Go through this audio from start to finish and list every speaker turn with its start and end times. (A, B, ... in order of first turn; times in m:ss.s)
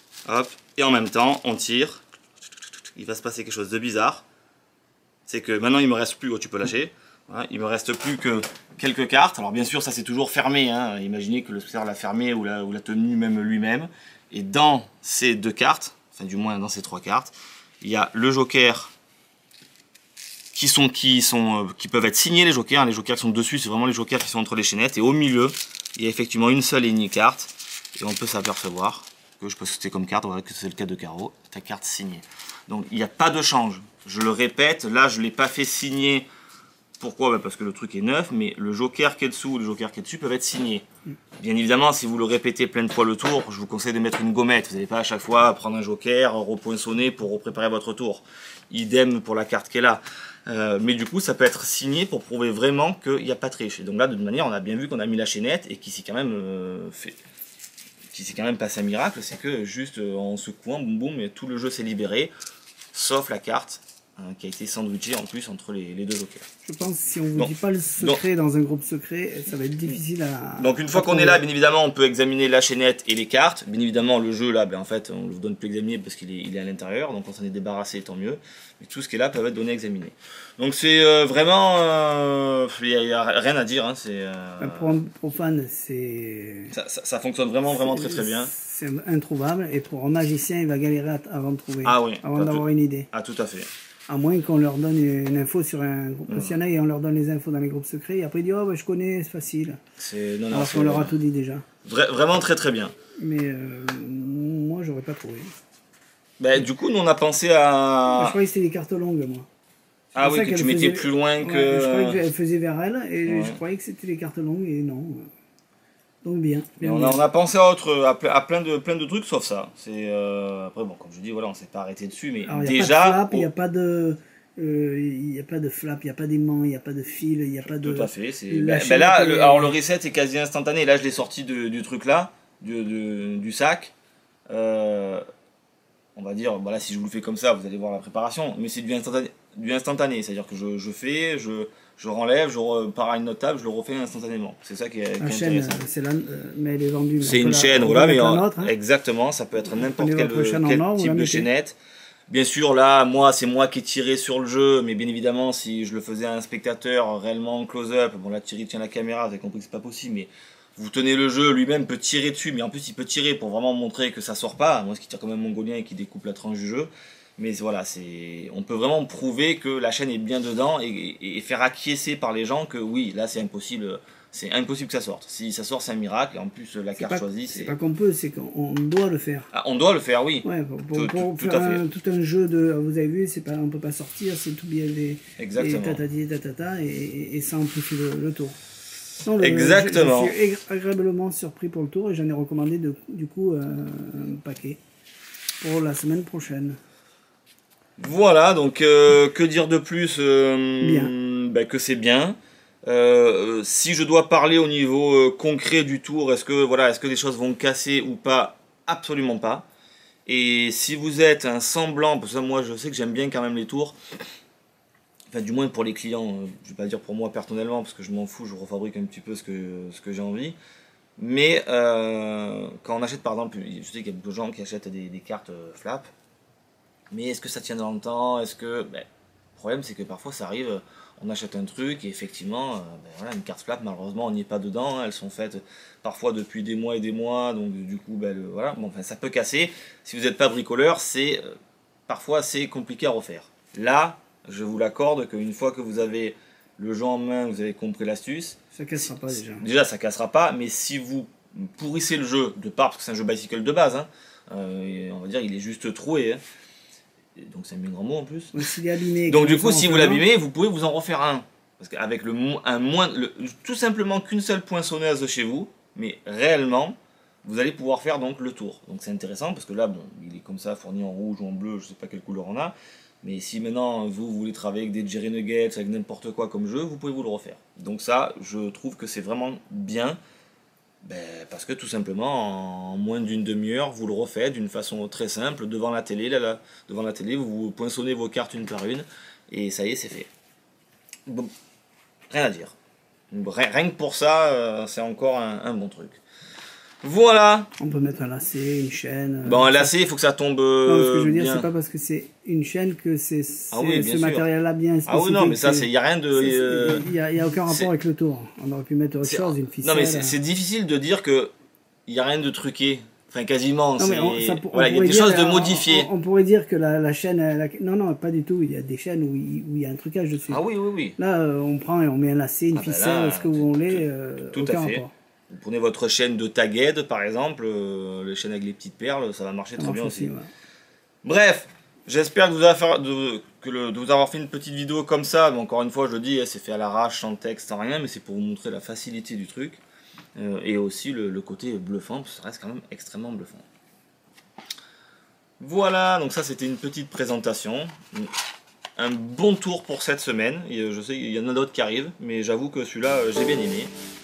0:00.2-0:02.0 A
0:02.9-0:04.2 A
0:05.3-0:18.9 A
0:20.5-0:36.3 A
0:37.0-0:40.8 A
0:41.4-0:57.1 A
0:58.1-1:02.3 A
1:02.9-1:06.4 A
1:06.6-1:11.4 B
1:07.3-1:08.2 A
1:10.6-1:25.0 A
1:24.6-1:26.7 B
1:26.7-1:28.5 A
1:27.7-1:33.1 B
1:31.8-1:33.7 A
1:34.1-1:39.8 B
1:36.3-1:36.6 A
1:40.0-1:41.2 A
1:40.5-1:41.6 B
1:41.8-1:42.9 A
1:43.2-1:45.5 B
1:46.4-1:48.4 A
1:48.1-1:49.5 B
1:50.1-1:52.2 A
1:50.2-1:55.3 B
1:53.2-1:53.6 A
1:56.2-1:57.2 B
1:56.8-2:03.5 A
2:02.4-2:09.7 B
2:07.7-2:13.9 A
2:14.5-2:15.2 A
2:16.1-2:25.8 A
2:25.2-2:28.7 B
2:27.2-2:31.8 A
2:29.7-2:31.5 B
2:32.3-2:57.7 A
2:57.0-2:59.5 B
2:59.5-3:01.8 A
3:00.4-3:08.6 B
3:05.4-3:06.0 A
3:09.2-3:14.8 B
3:09.4-3:10.4 A
3:15.6-3:16.8 B
3:18.0-3:29.6 A
3:20.8-3:21.1 B
3:30.2-3:34.0 A
3:35.3-3:40.6 A
3:41.2-3:46.1 A
3:47.1-4:01.5 A
4:02.1-4:16.4 A
4:08.7-4:09.6 B
4:17.4-4:18.7 A
4:18.5-4:20.2 B
4:19.2-4:40.2 A
4:41.0-4:50.3 A
4:51.3-4:51.5 A
4:52.3-4:52.7 A
4:53.3-4:56.2 A
4:57.0-4:57.7 A
4:57.8-4:59.9 B
4:59.4-5:01.7 A
5:00.8-5:10.3 B
5:03.7-5:04.4 A
5:05.0-5:07.0 A
5:09.2-5:11.5 A
5:12.1-5:16.1 A
5:14.0-5:20.6 B
5:20.5-5:21.2 A
5:21.2-5:25.1 B
5:22.7-5:30.3 A
5:29.8-5:30.5 B
5:31.2-5:39.8 A
5:40.4-5:43.6 A
5:45.6-5:48.3 A
5:49.0-5:53.9 A